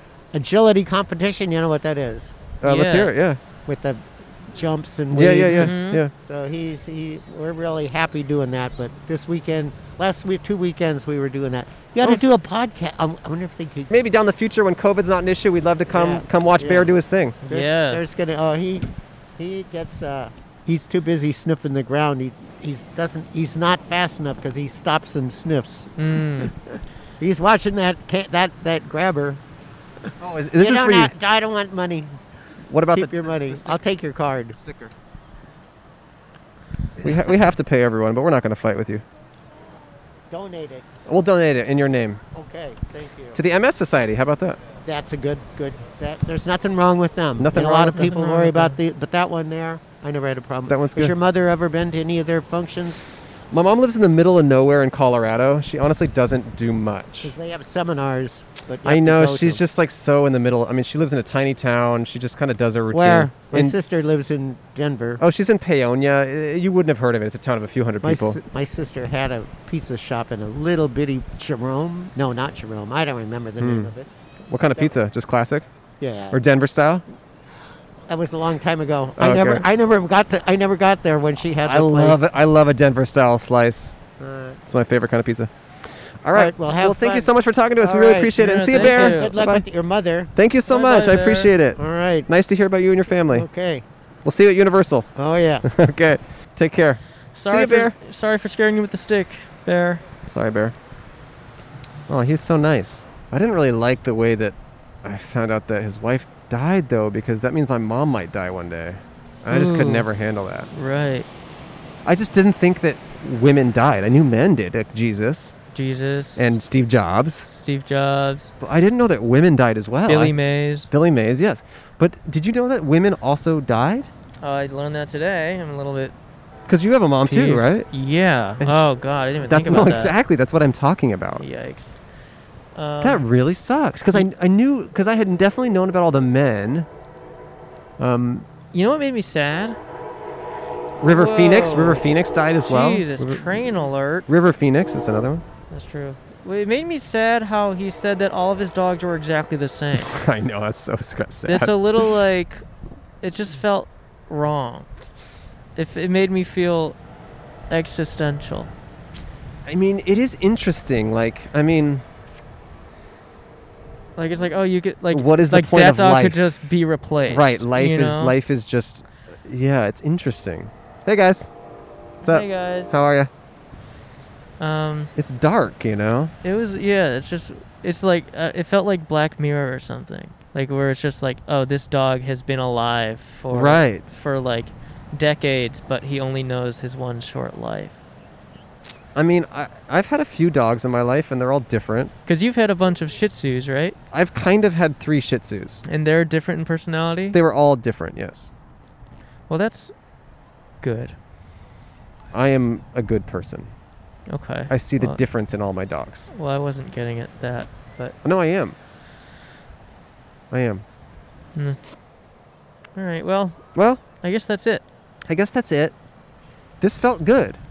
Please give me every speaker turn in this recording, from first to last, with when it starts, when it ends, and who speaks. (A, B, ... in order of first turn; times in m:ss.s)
0:00.3-0:02.6 A
0:02.6-0:03.4 B
0:02.6-0:03.1 C
0:03.7-0:13.9 A
0:05.1-0:06.1 B
0:05.5-0:06.0 C
0:12.0-0:12.3 B
0:13.9-0:17.4 B
0:15.9-0:17.0 A
0:17.4-0:18.0 C
0:17.5-0:25.9 A
0:26.0-0:26.5 C
0:27.2-0:29.4 A
0:30.2-0:31.1 B
0:30.6-0:32.1 A
0:32.7-0:33.8 B
0:32.9-0:34.6 A
0:34.6-0:34.9 B
0:37.0-0:39.0 B
0:40.3-0:40.9 A
0:41.0-0:42.2 B
0:42.3-0:43.4 A
0:43.4-0:44.6 B
0:44.8-0:53.0 A
0:47.4-0:48.1 B
0:47.9-0:48.8 C
0:50.7-0:51.1 B
0:53.5-0:57.3 B
0:57.2-0:59.6 A
0:58.8-1:03.8 B
1:02.9-1:05.2 A
1:05.2-1:08.4 B
1:08.0-1:14.1 A
1:13.6-1:13.9 B
1:14.5-1:15.7 B
1:16.0-1:16.4 A
1:16.3-1:17.0 B
1:18.1-1:22.2 A
1:19.2-1:19.7 B
1:21.6-1:24.0 B
1:24.2-1:24.6 A
1:24.6-1:25.5 B
1:26.2-1:29.6 B
1:26.3-1:30.3 A
1:28.3-1:29.3 C
1:30.3-1:33.5 B
1:30.7-1:31.5 C
1:31.8-1:32.3 A
1:33.3-1:33.8 A
1:34.2-1:35.1 B
1:35.1-1:35.7 A
1:35.6-1:38.0 B
1:37.3-1:40.0 C
1:40.3-1:40.7 B
1:42.1-1:50.7 B
1:49.5-1:50.1 C
1:50.7-1:51.3 C
1:52.0-1:55.5 B
1:55.7-1:56.6 C
1:56.4-1:57.5 B
1:57.5-1:58.5 C
1:58.6-2:00.4 B
2:00.1-2:00.9 C
2:00.9-2:04.1 B
2:04.4-2:06.1 C
2:06.7-2:07.9 B
2:07.3-2:10.1 C
2:08.6-2:08.9 B
2:09.4-2:11.4 B
2:11.4-2:12.0 C
2:12.7-2:13.2 C
2:13.0-2:16.9 B
2:18.0-2:18.5 B
2:18.7-2:19.8 C
2:21.0-2:23.6 B
2:21.0-2:22.0 C
2:22.6-2:24.3 C
2:24.3-2:25.4 B
2:25.7-2:30.2 C
2:30.0-2:32.1 B
2:31.5-2:32.6 C
2:33.2-2:34.9 C
2:35.8-2:37.0 C
2:37.7-2:38.7 C
2:39.7-2:42.0 B
2:44.2-2:48.3 C
2:45.1-2:46.4 B
2:47.3-2:51.5 B
2:52.2-2:53.1 C
2:52.2-2:53.3 B
2:54.6-2:55.1 C
2:55.2-2:56.3 B
2:56.4-3:08.0 C
3:03.5-3:04.2 B
3:09.1-3:12.1 B
3:12.3-3:14.0 C
3:14.1-3:15.8 B
3:15.9-3:17.4 C
3:17.3-3:18.5 B
3:19.5-3:19.9 C
3:20.8-3:21.2 C
3:22.3-3:23.7 B
3:24.3-3:25.2 C
3:24.7-3:26.3 B
3:26.3-3:28.2 C
3:28.2-3:28.8 B
3:30.5-3:30.8 B
3:33.0-3:33.6 C
3:33.7-3:34.0 B
3:34.2-3:34.8 C
3:35.3-3:36.0 B
3:36.8-3:37.6 B